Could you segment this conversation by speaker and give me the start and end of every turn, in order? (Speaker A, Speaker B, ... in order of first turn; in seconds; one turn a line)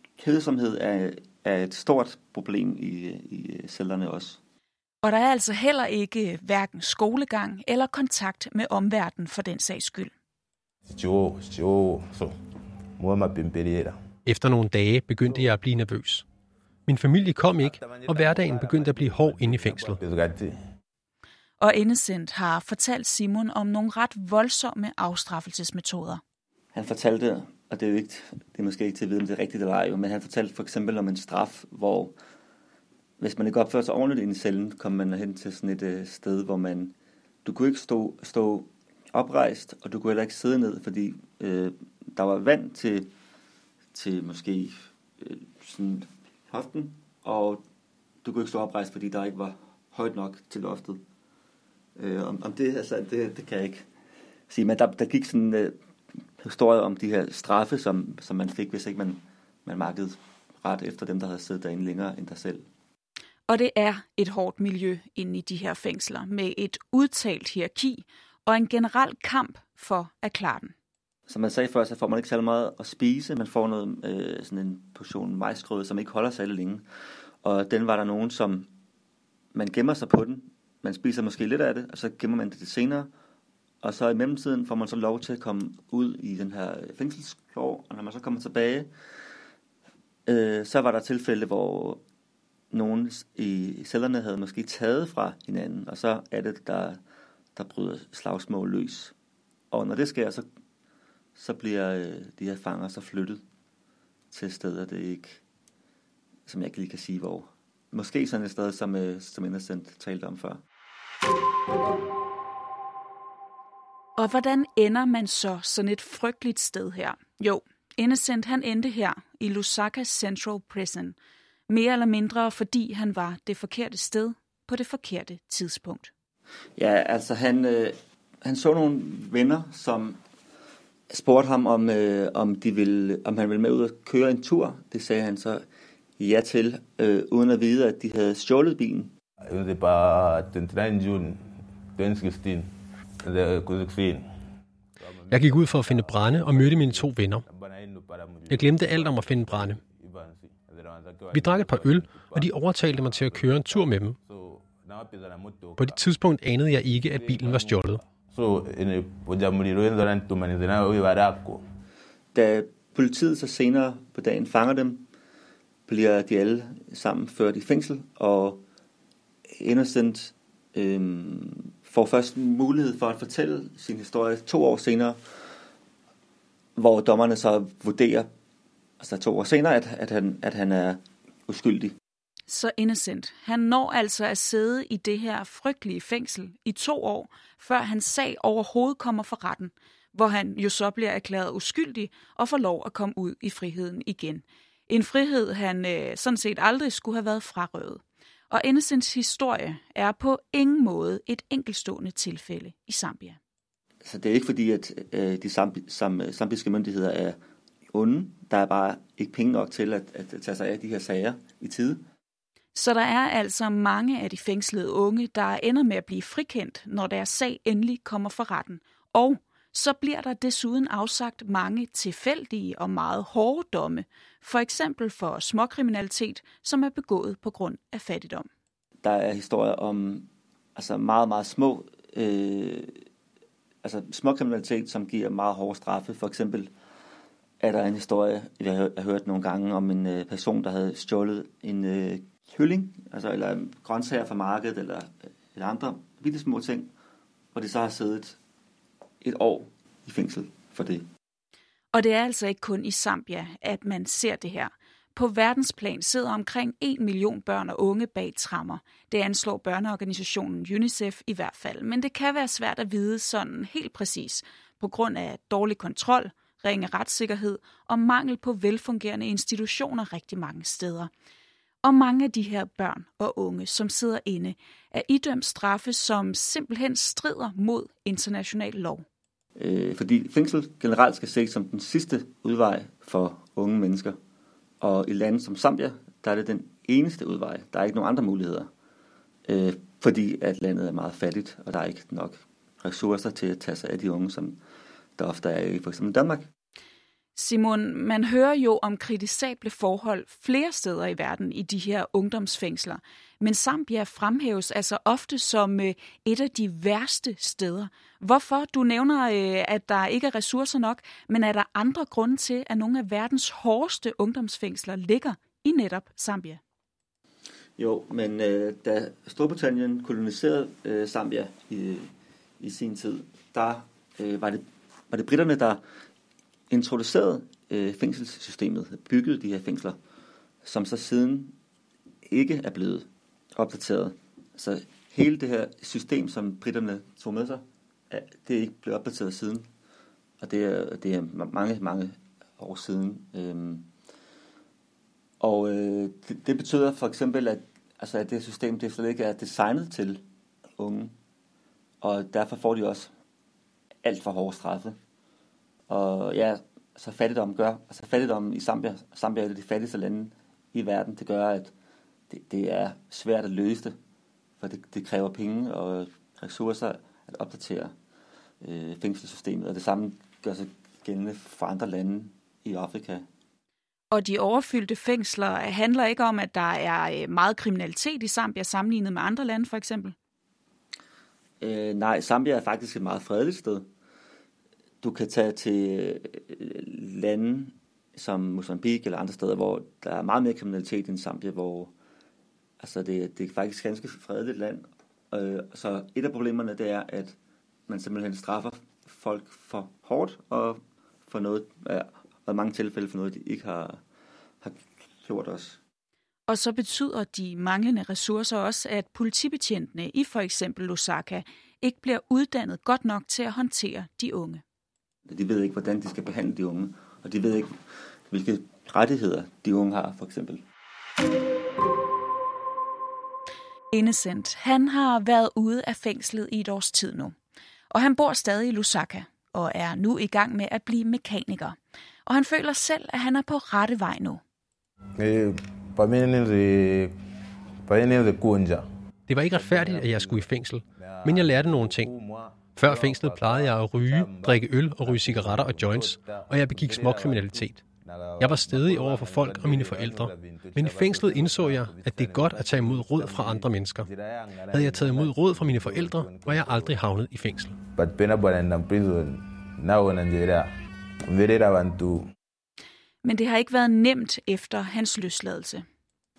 Speaker A: 0.2-4.4
Speaker B: 5.0-10.1
Speaker C: 10.9-12.3
Speaker C: 13.0-14.0
Speaker D: 14.2-16.2
Speaker C: 15.2-15.5
Speaker D: 16.9-20.0
Speaker C: 17.6-20.5
Speaker B: 21.6-26.2
Speaker A: 26.7-32.1
Speaker A: 33.2-36.9
Speaker A: 37.4-43.1
Speaker A: 43.9-47.6
Speaker A: 48.2-51.0
Speaker A: 52.0-53.8
Speaker A: 54.5-55.8
Speaker A: 56.4-62.6
Speaker B: 63.5-70.7
Speaker A: 71.3-76.8
Speaker A: 77.4-78.7
Speaker A: 79.5-83.1
Speaker A: 83.8-88.9
Speaker A: 90.2-92.0
Speaker A: 92.7-97.0
Speaker A: 97.5-99.1
Speaker A: 99.7-100.4
Speaker A: 101.3-103.4
Speaker A: 104.3-105.4
Speaker A: 106.5-110.6
Speaker B: 114.2-121.2
Speaker B: 121.7-126.1
Speaker A: 126.8-130.2
Speaker A: 131.1-135.6
Speaker A: 136.2-139.1
Speaker C: 139.5-142.7
Speaker C: 143.2-144.2
Speaker C: 145.0-156.0
Speaker D: 145.3-147.4
Speaker D: 148.5-149.8
Speaker D: 151.3-154.2
Speaker D: 155.8-158.0
Speaker C: 157.1-161.6
Speaker A: 162.3-165.1
Speaker A: 165.9-168.6
Speaker A: 169.6-175.2
Speaker A: 176.8-178.3
Speaker A: 179.0-181.9
Speaker B: 182.5-203.4
Speaker A: 204.0-207.4
Speaker A: 207.9-212.0
Speaker B: 212.7-228.5
Speaker A: 229.0-233.0
Speaker A: 233.8-236.7
Speaker A: 237.6-246.9
Speaker A: 247.5-248.4
Speaker A: 249.2-251.1
Speaker B: 251.9-271.1
Speaker B: 271.8-279.0
Speaker A: 279.6-284.2
Speaker A: 284.8-288.7
Speaker A: 289.4-294.6
Speaker A: 295.2-296.5
Speaker B: 297.3-316.6
Speaker A: 317.8-322.1
Speaker A: 322.6-325.8
Speaker A: 326.7-330.0
Speaker A: 330.6-331.5
Speaker A: 332.3-333.1
Speaker A: 333.6-339.7
Speaker A: 340.4-343.9
Speaker A: 345.4-350.2
Speaker A: 350.8-351.1
Speaker A: 352.0-353.1
Speaker A: 354.0-354.9
Speaker A: 355.9-361.7
Speaker A: 362.3-363.9
Speaker A: 364.6-367.9
Speaker A: 368.6-373.2
Speaker B: 374.1-380.1
Speaker A: 381.6-383.9
Speaker A: 385.0-391.9
Speaker A: 392.8-397.3
Speaker A: 397.9-404.0
Speaker A: 404.6-405.8
Speaker B: 406.5-414.6
Speaker A: 415.3-417.7
Speaker A: 418.3-420.6
Speaker B: 423.9-427.4
Speaker B: 427.9-434.4
Speaker C: 435.2-437.1
Speaker C: 437.9-438.9
Speaker D: 439.3-442.1
Speaker C: 439.5-457.0
Speaker D: 442.8-447.8
Speaker D: 448.4-454.1
Speaker D: 454.7-457.8
Speaker C: 457.9-460.7
Speaker C: 461.2-462.3
Speaker B: 463.2-465.8